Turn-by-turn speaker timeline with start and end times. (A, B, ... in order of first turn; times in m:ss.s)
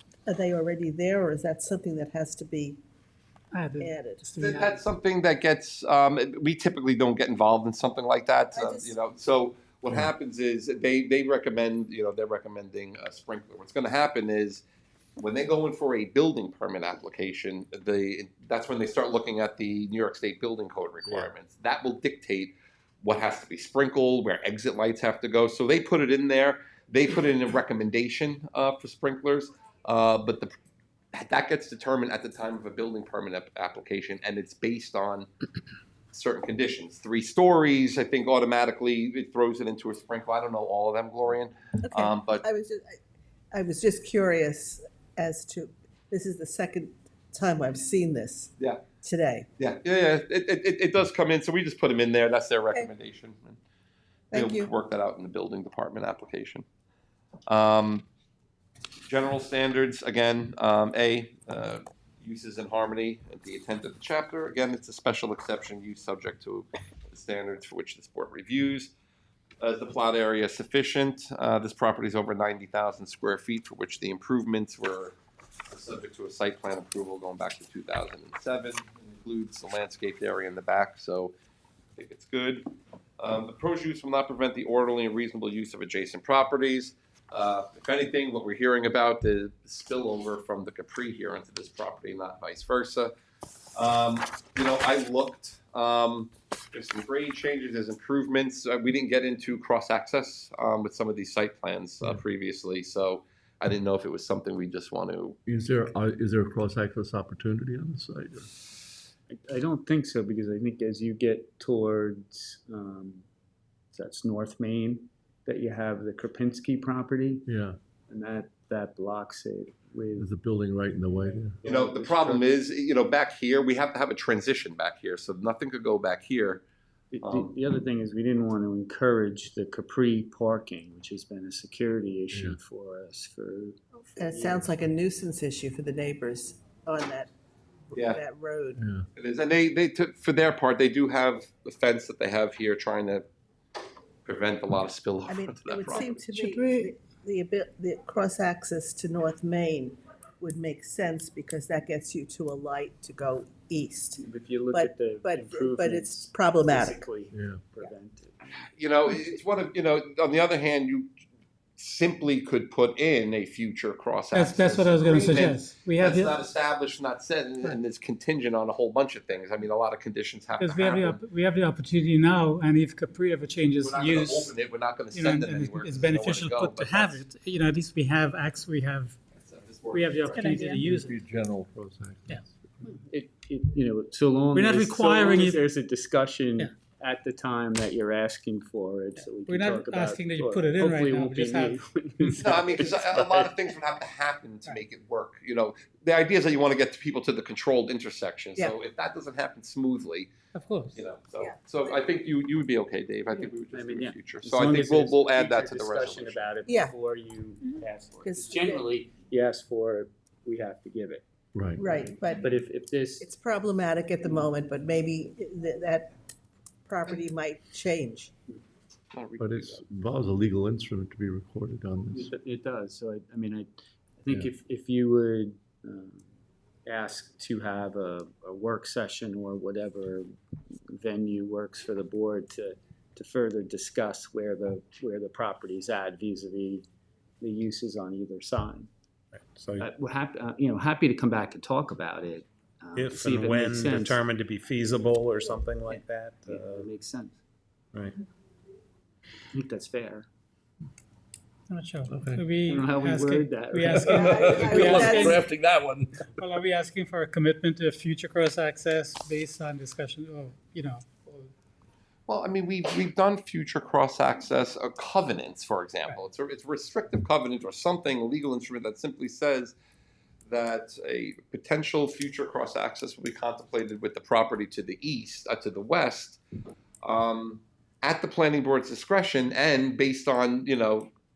0:00.3-0:02.8 A
0:03.5-0:04.8 B
0:03.8-0:04.2 A
0:04.4-0:14.6 C
0:08.5-0:09.0 A
0:15.2-0:30.5 C
0:31.1-0:35.3 C
0:36.1-0:42.4 C
0:41.8-0:43.0 A
0:43.5-0:49.5 A
0:49.6-0:53.6 C
0:54.3-0:54.7 A
0:54.3-0:56.6 C
0:57.5-0:58.0 C
0:59.1-1:08.9 C
1:09.6-1:15.2 C
1:15.7-1:21.3 C
1:22.0-1:33.1 C
1:33.7-1:45.4 C
1:45.5-1:48.5 D
1:49.3-1:53.2 E
1:53.9-1:57.5 E
1:57.5-1:57.8 D
1:58.1-2:00.3 E
2:00.2-2:01.6 D
2:01.6-2:02.4 E
2:01.6-2:02.1 F
2:01.7-2:06.6 C
2:07.1-2:14.7 E
2:07.2-2:07.5 C
2:12.3-2:12.6 D
2:14.2-2:17.3 A
2:17.9-2:18.8 A
2:17.9-2:18.2 C
2:18.8-2:19.1 D
2:19.2-2:23.3 C
2:24.3-2:26.7 C
2:25.3-2:37.0 A
2:34.2-2:38.7 E
2:37.3-2:37.6 D
2:38.7-2:41.1 C
2:41.8-2:51.2 C
2:44.3-2:46.4 B
2:50.6-2:54.6 B
2:53.8-2:57.2 C
2:55.1-2:59.2 B
2:59.3-3:00.5 C
2:59.9-3:01.2 B
3:00.4-3:00.8 A
3:00.8-3:02.5 D
3:02.8-3:13.7 E
3:04.6-3:05.6 B
3:09.5-3:11.8 B
3:12.4-3:20.3 C
3:20.6-3:21.0 B
3:21.0-3:26.5 C
3:21.4-3:21.9 A
3:23.7-3:31.2 E
3:26.7-3:26.9 A
3:28.2-3:28.9 A
3:31.5-3:31.8 D
3:31.8-3:32.5 A
3:32.3-3:33.3 E
3:33.2-3:36.1 A
3:36.9-3:38.3 A
3:39.1-3:39.8 C
3:39.4-3:42.3 D
3:42.1-3:46.3 E
3:46.9-3:50.3 E
3:50.9-3:56.9 E
3:57.4-3:58.9 E
3:59.3-3:59.9 F
3:59.8-4:04.2 E
4:03.0-4:06.9 F
4:06.5-4:07.4 E
4:09.5-4:10.3 E
4:11.7-4:15.5 B
4:12.1-4:12.4 D
4:12.7-4:15.1 E
4:14.1-4:15.5 A
4:14.1-4:16.3 D
4:16.4-4:21.5 B
4:22.3-4:29.8 C
4:30.5-4:36.4 C
4:37.0-4:41.1 C